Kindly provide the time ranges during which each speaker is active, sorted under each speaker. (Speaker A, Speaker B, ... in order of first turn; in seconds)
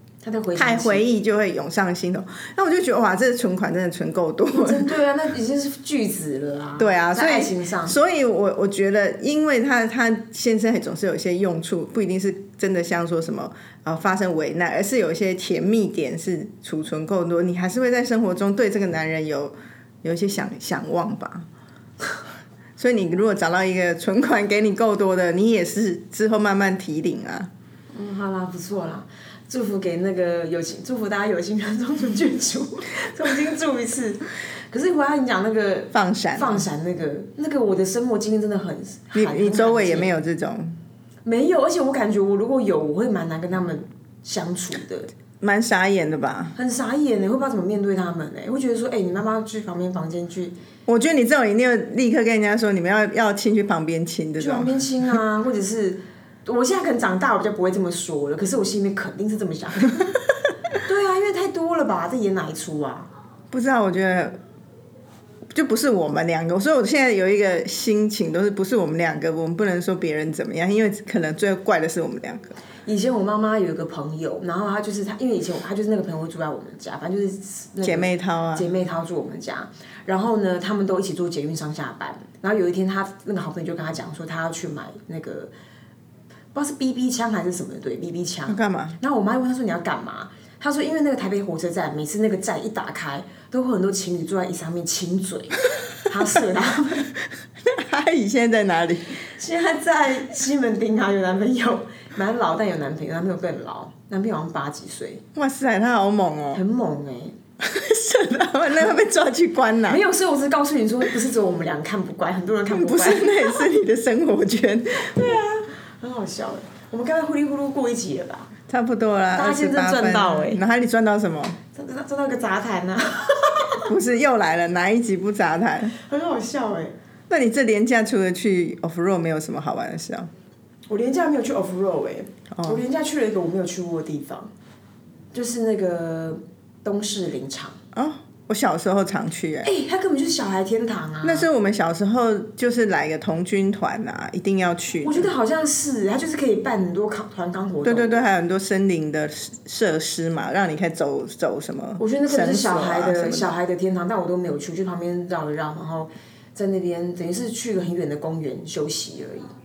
Speaker A: 0.2-1.0, 4.5-8.0, 27.9-40.1, 41.2-45.1, 46.5-50.5, 54.4-60.1, 60.8-63.1, 72.8-85.5, 86.5-97.1, 99.3-105.2, 106.5-107.4, 109.9-113.6, 115.0-118.5, 119.3-120.6, 121.7-123.9, 126.0-127.0, 130.9-134.5, 135.3-137.8, 139.6-141.5, 145.0-148.2, 152.0-159.5
Speaker B: 0.5-4.9, 6.8-21.5, 22.8-27.5, 35.9-36.6, 39.1-40.8, 45.4-46.5, 50.9-54.8, 63.5-64.4, 65.5-72.5, 77.8-78.7, 88.5-89.0, 97.7-99.2, 105.3-106.6, 107.6-110.0, 112.7-115.4, 118.7-121.6, 123.8-126.0, 127.3-130.3, 132.5-132.8, 137.9-139.7, 141.2-145.3, 147.8-153.5